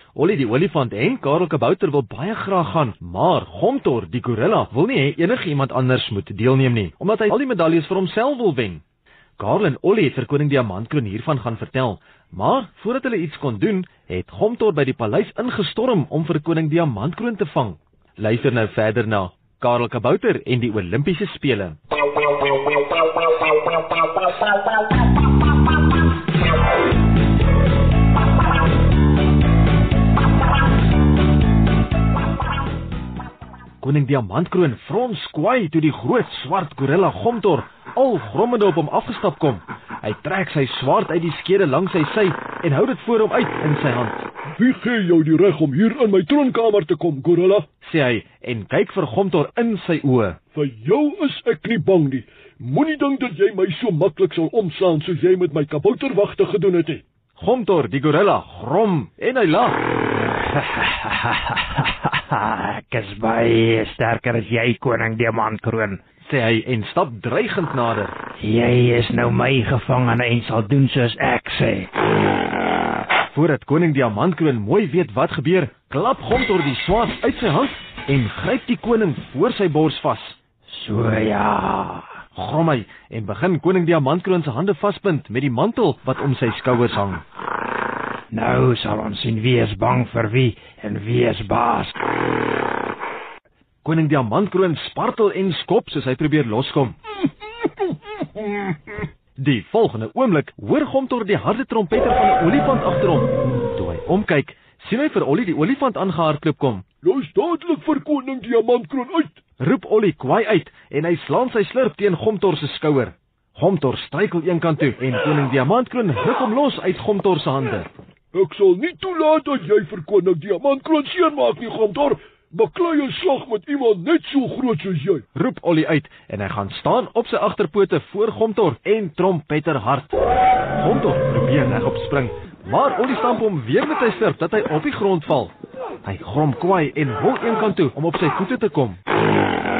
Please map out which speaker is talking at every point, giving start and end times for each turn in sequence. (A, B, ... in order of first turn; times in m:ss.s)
0:00.2-0:08.8 A
0:09.4-0:21.8 A
0:33.8-0:44.3 A
0:44.6-0:47.7 B
0:47.8-0:50.4 A
0:50.5-0:57.0 B
0:57.4-0:59.8 A
1:00.3-1:06.0 C
1:06.2-1:08.1 A
1:08.4-1:11.9 C
1:13.3-1:20.4 A
1:20.7-1:22.1 C
1:22.4-1:27.2 A
1:28.3-1:32.0 C
1:33.8-1:37.0 A
1:39.4-1:46.8 A
1:47.0-1:49.4 B
1:49.6-1:57.9 A
1:58.3-2:05.2 B
2:05.4-2:10.1 A
2:10.8-2:19.0 A